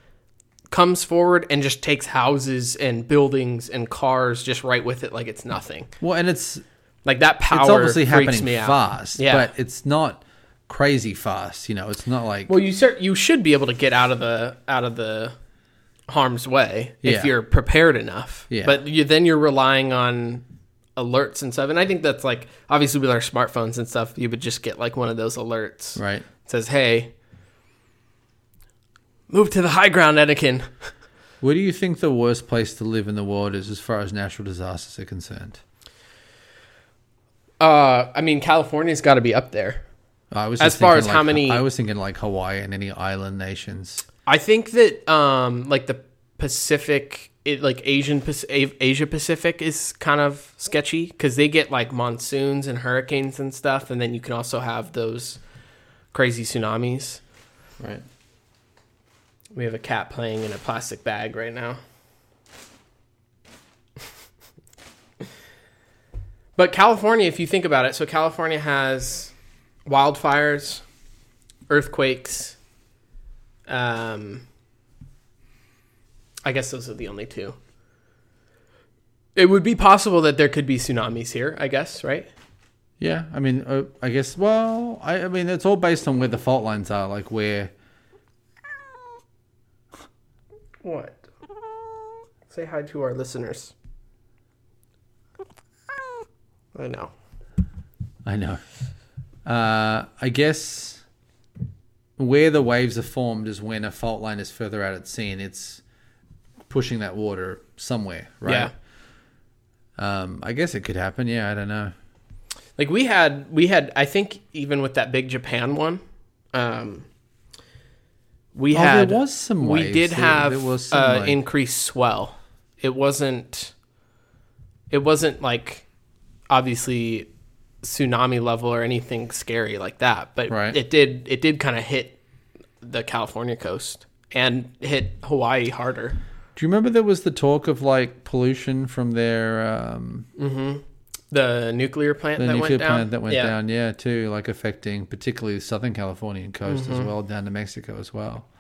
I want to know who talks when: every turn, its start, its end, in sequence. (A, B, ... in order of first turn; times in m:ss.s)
0:00.7-0:05.9 A
0:06.0-0:06.6 B
0:07.0-0:09.5 A
0:07.5-0:12.6 B
0:12.5-0:15.3 A
0:16.1-0:20.4 A
0:17.0-0:17.3 B
0:18.5-0:18.8 B
0:21.0-0:27.1 A
0:26.0-0:26.2 B
0:29.3-0:30.7 A
0:31.4-0:35.6 B
0:37.6-0:39.8 A
0:40.3-0:44.0 B
0:40.6-0:41.6 A
0:44.2-0:55.4 A
0:56.1-0:57.2 A
0:57.8-0:58.0 B
0:59.5-1:01.8 A
1:06.6-1:09.3 A
1:09.8-1:10.8 A
1:11.7-1:12.6 A
1:13.7-1:14.4 A
1:16.4-1:17.6 A
1:19.3-1:22.3 A
1:23.0-1:27.7 B
1:30.8-1:31.3 A
1:32.5-1:33.7 A
1:36.7-1:37.1 A
1:38.2-1:38.6 B
1:39.4-1:41.0 B
1:42.2-1:45.8 B
1:46.7-1:48.7 B
1:48.4-1:48.7 A
1:50.0-1:51.9 B
1:52.8-1:56.0 A
1:56.5-1:57.0 A
1:58.5-2:03.7 A
1:58.7-2:01.4 B
2:04.9-2:05.8 A
2:06.5-2:07.3 A
2:07.8-2:12.2 A
2:10.5-2:10.8 B
2:12.8-2:16.2 A
2:16.6-2:20.3 B
2:20.4-2:23.5 A
2:22.4-2:28.4 B
2:26.7-2:27.1 A